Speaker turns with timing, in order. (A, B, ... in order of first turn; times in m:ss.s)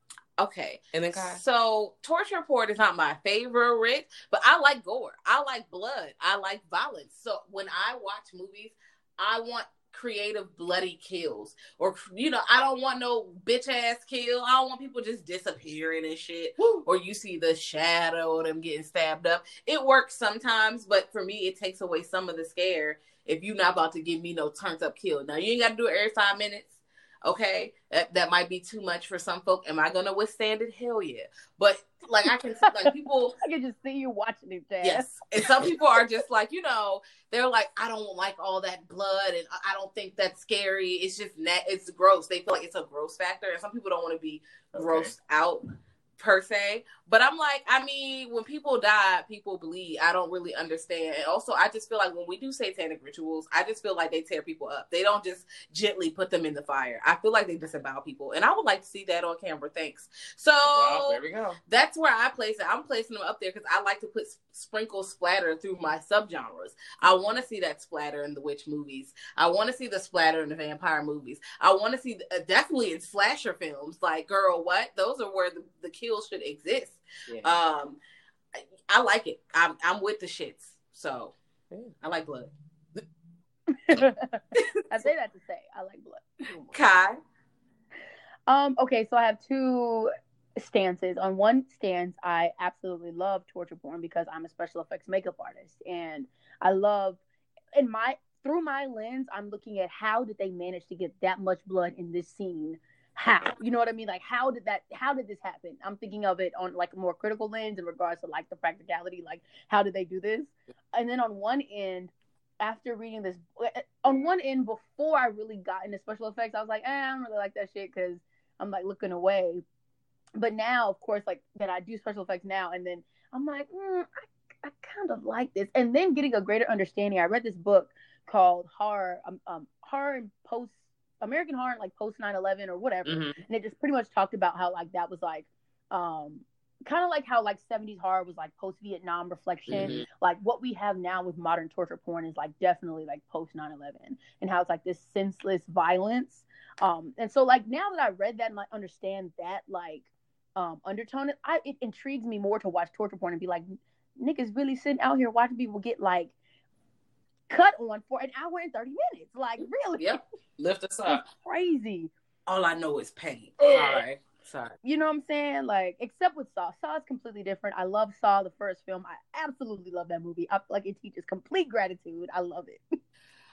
0:00.4-0:33.4 A
0:00.9-0:01.4 B
0:16.6-0:16.8 B
0:32.8-0:35.2 C
0:34.8-0:45.7 A
0:44.7-0:45.1 B
0:46.2-1:18.0 A
1:00.6-1:01.6 B
1:17.3-1:17.6 B
1:18.6-1:21.3 A
1:22.0-1:22.5 A
1:23.7-1:26.5 C
1:26.5-1:27.2 A
1:28.5-1:37.2 C
1:37.8-1:59.6 C
2:00.4-2:36.3 C
2:13.0-2:13.4 B
2:19.7-2:20.1 B
2:37.5-2:40.2 C
2:40.6-2:41.2 B
2:41.1-2:42.1 C
2:42.5-2:44.8 A
2:43.6-2:44.0 B
2:44.8-2:53.0 C